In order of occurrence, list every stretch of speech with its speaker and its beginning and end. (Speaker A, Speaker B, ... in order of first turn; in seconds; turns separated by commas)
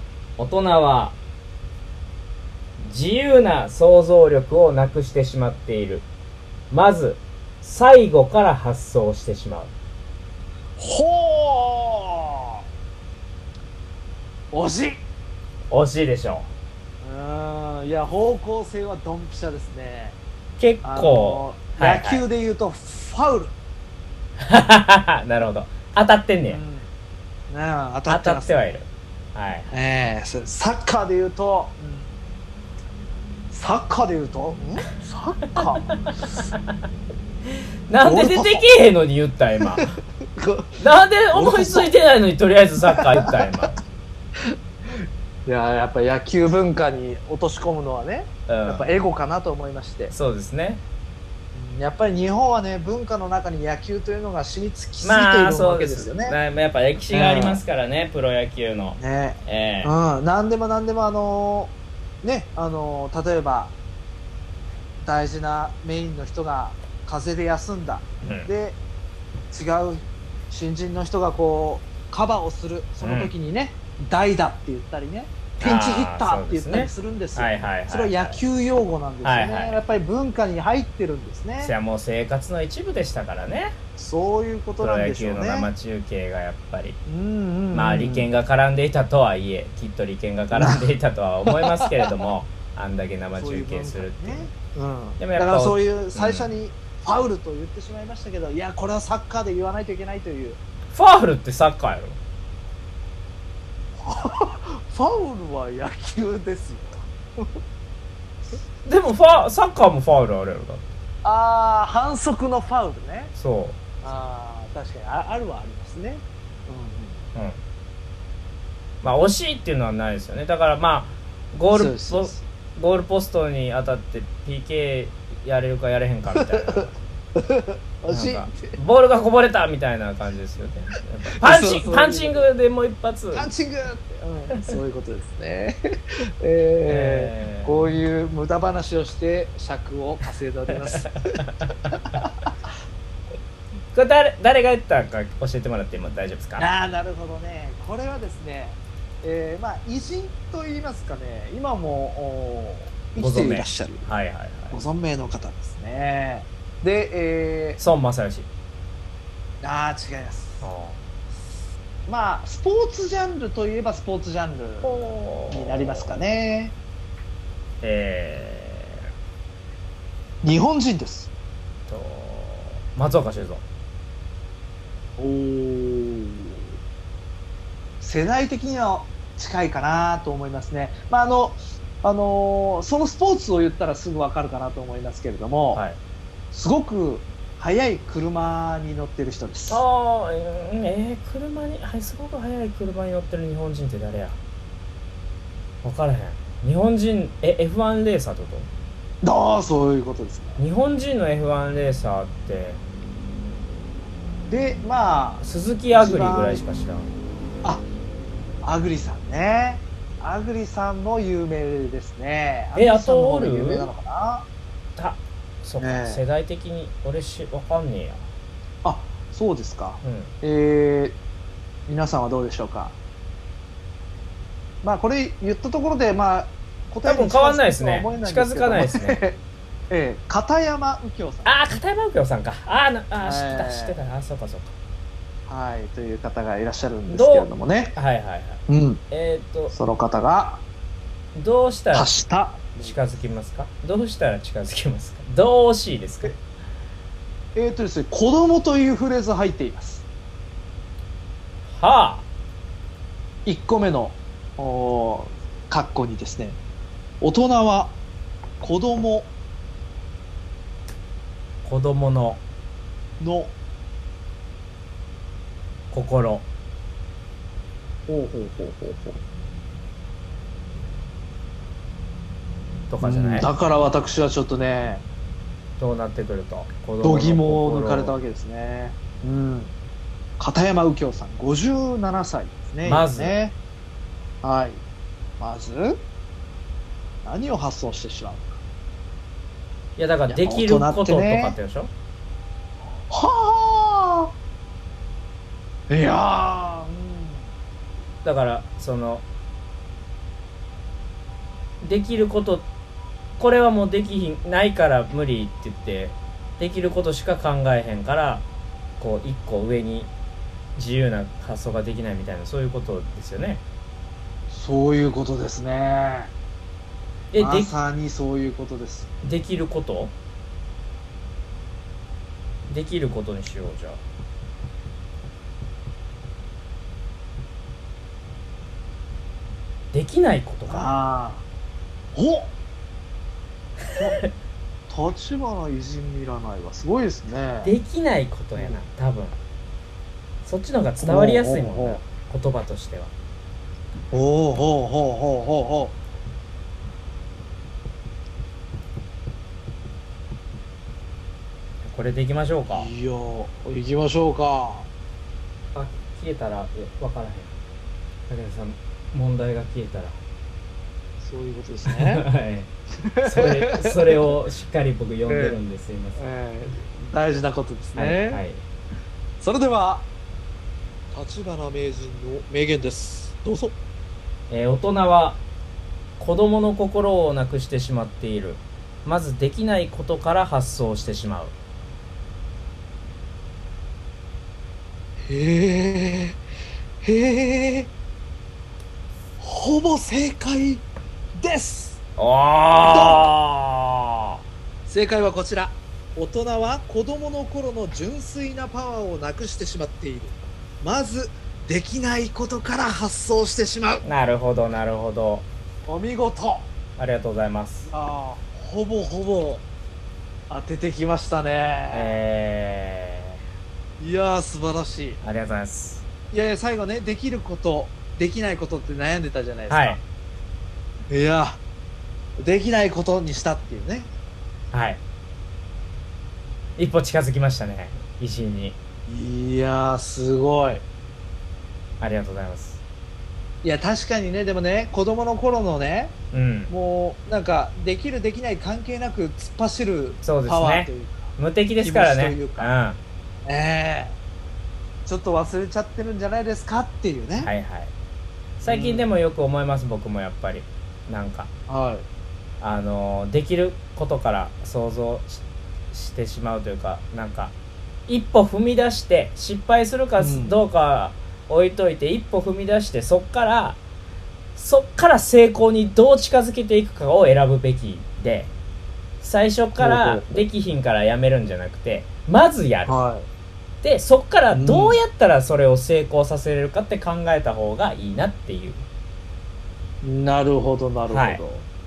Speaker A: 0.4-1.2, Speaker A: 2.8-6.1, Speaker A: 6.7-9.7, Speaker B: 10.8-12.4, Speaker B: 14.5-15.0, Speaker A: 15.7-16.5, Speaker B: 17.0-20.2, Speaker A: 20.6-22.2, Speaker B: 20.8-23.6, Speaker A: 24.4-26.6, Speaker B: 26.4-26.9, Speaker B: 27.5-28.6, Speaker A: 28.1-29.7, Speaker B: 29.7-32.1, Speaker B: 33.5-35.9, Speaker A: 35.9-36.4, Speaker A: 37.5-39.9, Speaker B: 38.0-38.7, Speaker B: 40.4-40.8, Speaker A: 40.8-43.7, Speaker B: 41.3-41.9, Speaker B: 42.9-43.5, Speaker B: 45.5-50.1, Speaker A: 48.5-48.9, Speaker A: 50.1-50.8, Speaker B: 51.5-56.4, Speaker A: 55.0-59.9, Speaker B: 57.1-57.6, Speaker B: 59.0-63.7, Speaker B: 65.0-68.8, Speaker A: 68.2-68.5, Speaker B: 69.5-81.7, Speaker A: 73.0-73.3, Speaker A: 75.6-78.4, Speaker A: 79.2-79.8, Speaker A: 81.6-83.8, Speaker B: 84.0-85.7, Speaker A: 84.8-87.0, Speaker B: 87.1-88.3, Speaker A: 87.7-94.5, Speaker B: 90.5-90.9, Speaker B: 91.5-92.1, Speaker B: 93.3-100.6, Speaker A: 95.2-96.5, Speaker A: 100.9-102.2, Speaker B: 104.0-107.5, Speaker A: 108.8-110.8, Speaker B: 111.2-113.3, Speaker A: 113.4-113.8, Speaker B: 114.0-117.2, Speaker A: 117.3-117.6, Speaker A: 119.0-127.0, Speaker B: 121.7-122.4, Speaker B: 126.3-128.8, Speaker A: 128.1-133.5, Speaker B: 131.4-132.5, Speaker B: 133.3-142.5, Speaker A: 136.9-137.9, Speaker A: 140.7-141.7, Speaker A: 143.9-146.7, Speaker B: 146.6-154.1, Speaker A: 153.2-154.8, Speaker B: 154.7-157.8, Speaker A: 157.8-158.5, Speaker B: 159.6-160.7, Speaker A: 160.6-161.0, Speaker B: 162.1-166.8, Speaker A: 164.8-166.1, Speaker A: 167.8-169.1, Speaker B: 170.4-171.3, Speaker A: 171.9-173.6, Speaker B: 175.2-176.6, Speaker B: 178.0-185.8, Speaker A: 185.7-186.0, Speaker B: 186.5-189.8, Speaker A: 189.7-194.4, Speaker A: 195.8-198.7, Speaker B: 199.2-200.6, Speaker A: 200.6-202.8, Speaker B: 204.5-206.7, Speaker A: 205.4-207.1, Speaker B: 208.6-214.5, Speaker A: 212.7-213.9, Speaker A: 215.0-218.3, Speaker B: 215.8-216.2, Speaker B: 218.8-221.2, Speaker A: 220.0-220.3, Speaker B: 221.9-223.0, Speaker B: 224.8-231.5, Speaker A: 227.1-229.2, Speaker A: 231.4-234.7, Speaker B: 233.2-234.0, Speaker B: 235.5-237.9, Speaker A: 237.1-239.7, Speaker B: 238.7-239.0, Speaker B: 239.7-240.6, Speaker A: 241.3-242.1, Speaker B: 241.9-242.9, Speaker A: 242.8-246.4, Speaker B: 247.6-250.1, Speaker A: 251.7-252.3, Speaker B: 253.4-256.6, Speaker B: 257.2-258.0, Speaker B: 258.6-259.3, Speaker A: 261.6-262.4, Speaker B: 263.2-263.6, Speaker A: 265.9-266.4, Speaker B: 268.1-269.2, Speaker A: 272.9-273.5, Speaker B: 273.0-275.0, Speaker A: 275.8-278.2, Speaker B: 277.0-279.7, Speaker B: 280.4-283.6, Speaker A: 282.8-283.4, Speaker B: 284.4-284.8, Speaker B: 285.4-286.0, Speaker B: 287.2-288.6, Speaker A: 290.0-291.9, Speaker B: 290.3-291.6, Speaker B: 293.1-294.3, Speaker B: 295.9-297.5, Speaker A: 298.2-299.3, Speaker A: 301.8-302.7, Speaker A: 303.4-308.4, Speaker A: 309.0-310.1, Speaker A: 310.8-313.6, Speaker B: 314.5-316.3, Speaker A: 317.3-317.7, Speaker B: 317.4-319.1, Speaker A: 319.2-320.1, Speaker A: 322.7-324.0, Speaker A: 329.9-330.9, Speaker B: 330.7-331.4, Speaker B: 332.1-332.5, Speaker A: 333.9-334.3, Speaker B: 333.9-334.2, Speaker B: 334.9-337.7, Speaker A: 337.6-339.4, Speaker B: 338.6-338.8, Speaker A: 340.4-343.1, Speaker B: 341.0-342.0, Speaker B: 344.1-346.0, Speaker A: 351.8-352.9, Speaker B: 352.7-354.9, Speaker A: 355.7-357.5, Speaker A: 358.3-360.2, Speaker B: 361.2-362.2, Speaker A: 361.9-362.7, Speaker B: 363.0-364.3, Speaker A: 363.2-366.2, Speaker B: 365.3-365.6, Speaker B: 366.1-368.4, Speaker A: 367.9-368.6, Speaker B: 369.4-370.1, Speaker B: 371.1-373.8, Speaker A: 374.5-375.4, Speaker A: 376.2-381.6, Speaker B: 385.3-386.4, Speaker B: 387.0-387.9, Speaker B: 389.4-390.9, Speaker B: 391.4-392.0, Speaker A: 392.2-394.4, Speaker B: 392.8-393.3, Speaker B: 394.9-404.0, Speaker A: 404.1-405.4, Speaker B: 405.9-406.7, Speaker A: 407.0-407.9, Speaker B: 407.9-409.6, Speaker B: 410.5-412.2, Speaker A: 411.9-413.4, Speaker B: 414.0-415.2, Speaker A: 415.2-416.1, Speaker B: 416.3-420.0, Speaker A: 419.7-420.0, Speaker B: 421.1-421.6, Speaker B: 422.4-424.1, Speaker A: 424.7-425.0, Speaker A: 426.8-428.8, Speaker B: 429.1-430.8, Speaker A: 432.0-432.8, Speaker B: 433.6-436.1, Speaker A: 436.3-436.7, Speaker B: 436.7-442.7, Speaker A: 440.2-443.0, Speaker B: 443.4-444.1, Speaker B: 445.1-447.5, Speaker A: 447.4-447.9, Speaker A: 448.6-451.5, Speaker B: 448.6-449.1, Speaker B: 451.7-452.1, Speaker A: 452.6-457.5, Speaker A: 458.1-463.8, Speaker B: 460.2-460.6, Speaker A: 464.6-468.5, Speaker A: 469.2-473.0, Speaker B: 469.8-470.4, Speaker B: 472.9-473.3, Speaker A: 473.8-478.9, Speaker B: 474.5-475.0, Speaker B: 480.0-481.7, Speaker A: 481.1-481.4